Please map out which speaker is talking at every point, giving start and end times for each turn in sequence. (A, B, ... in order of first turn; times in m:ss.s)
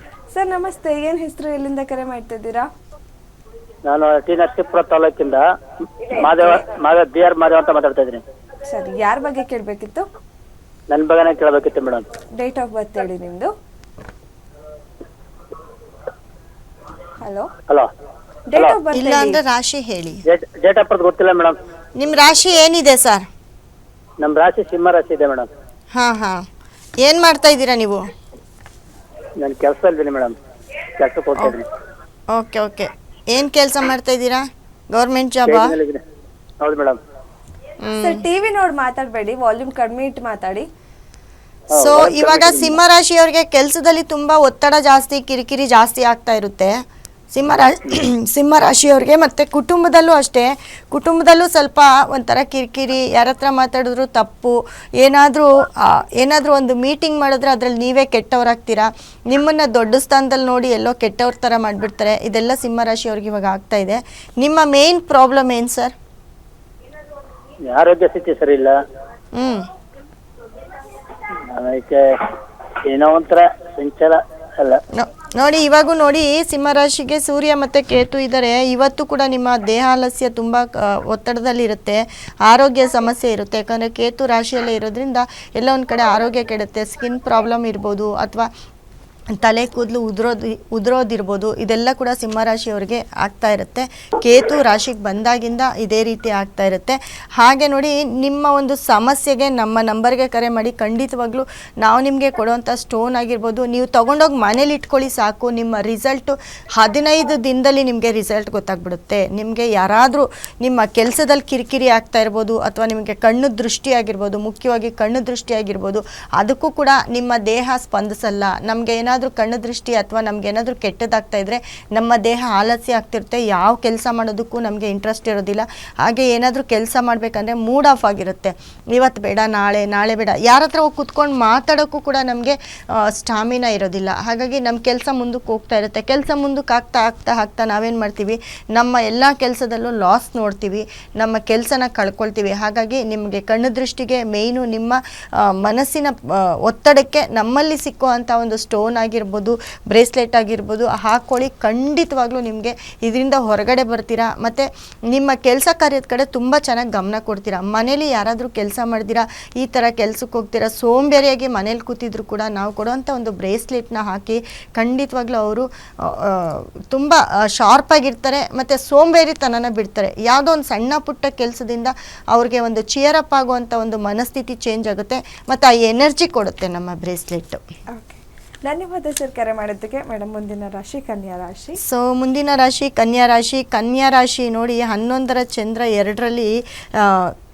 0:00.3-0:02.7 A
0:03.8-0:05.4 B
0:06.0-0:08.2 B
0:06.2-0:06.6 A
0:08.7-0:10.0 A
0:10.9-0:12.0 B
0:12.4-0:13.5 A
0:17.2-0:17.5 A
0:18.5-0:19.4 A
0:18.9-0:20.2 C
0:20.3-0:21.5 B
0:22.0-0:23.2 C
0:24.2-0:25.5 B
0:25.9-0:26.4 C
0:27.0-0:28.0 C
0:29.4-0:30.3 B
0:31.0-0:31.6 B
0:32.3-0:35.8 C
0:35.4-0:36.0 B
0:36.6-0:37.0 B
0:37.8-0:38.2 C
0:38.0-0:40.7 A
0:41.7-0:42.8 B
0:41.8-0:46.8 C
0:47.3-1:05.9 C
1:07.7-1:08.8 B
1:09.3-1:09.6 C
1:11.5-1:12.0 B
1:12.9-1:14.8 B
1:14.9-1:28.5 C
1:29.4-2:57.6 C
2:57.9-3:01.8 A
3:01.8-3:07.3 C